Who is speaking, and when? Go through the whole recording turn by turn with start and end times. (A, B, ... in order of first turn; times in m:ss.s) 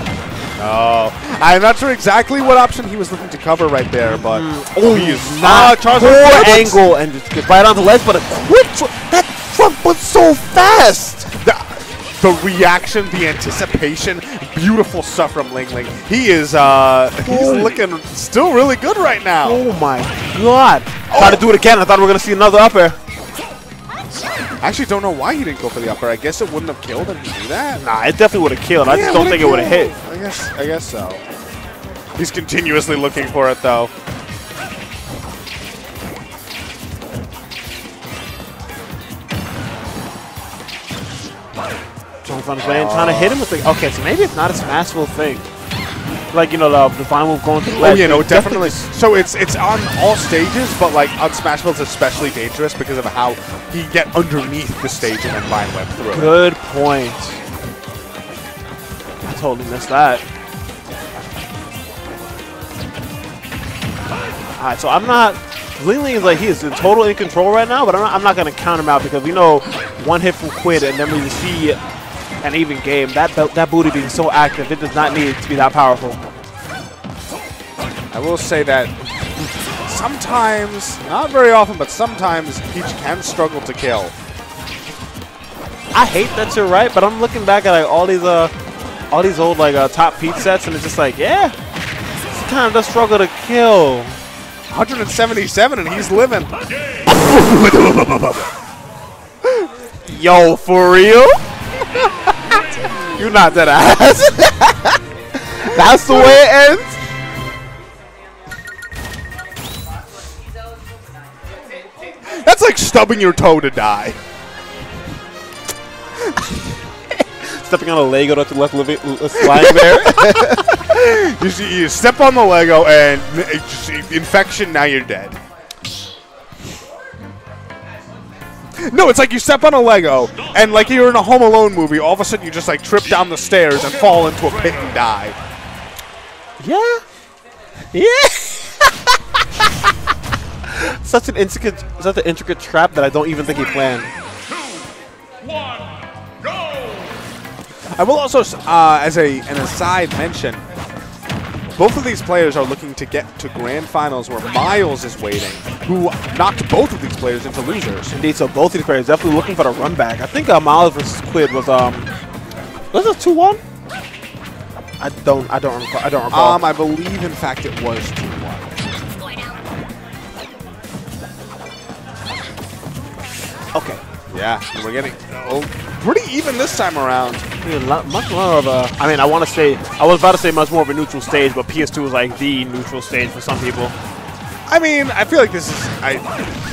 0:00.6-0:06.8 A
0:04.0-0:11.3 B
0:11.3-0:19.6 A
0:17.2-0:17.8 B
0:19.4-0:23.0 B
0:21.1-0:21.5 A
0:24.6-0:27.8 A
0:27.8-0:29.9 B
0:28.8-0:31.2 A
0:32.2-0:33.9 A
0:42.2-0:45.4 B
0:42.6-0:43.4 A
0:46.3-0:48.9 B
0:47.7-0:56.4 A
0:56.0-0:57.4 B
0:59.2-1:00.2 B
1:04.6-1:11.8 B
1:12.4-1:16.2 B
1:18.1-1:24.1 A
1:25.9-1:28.5 B
1:29.1-1:31.5 B
1:32.3-1:34.2 B
1:34.7-1:36.5 A
1:37.1-1:38.5 A
1:40.1-1:41.4 B
1:43.0-1:47.0 B
1:45.7-1:46.4 A
1:52.2-1:54.2 A
1:57.4-2:00.7 B
1:59.4-2:05.4 A
2:08.8-2:15.4 A
2:16.6-2:17.0 B
2:17.9-2:19.7 B
2:20.6-2:24.1 B
2:28.0-2:30.6 A
2:31.8-2:38.1 A
2:38.1-2:42.1 B
2:42.9-2:43.6 B
2:45.0-2:46.6 B
2:46.3-2:48.7 A
2:53.7-2:54.0 B
2:54.3-2:57.4 A
2:57.6-3:03.9 B
3:04.7-3:06.4 A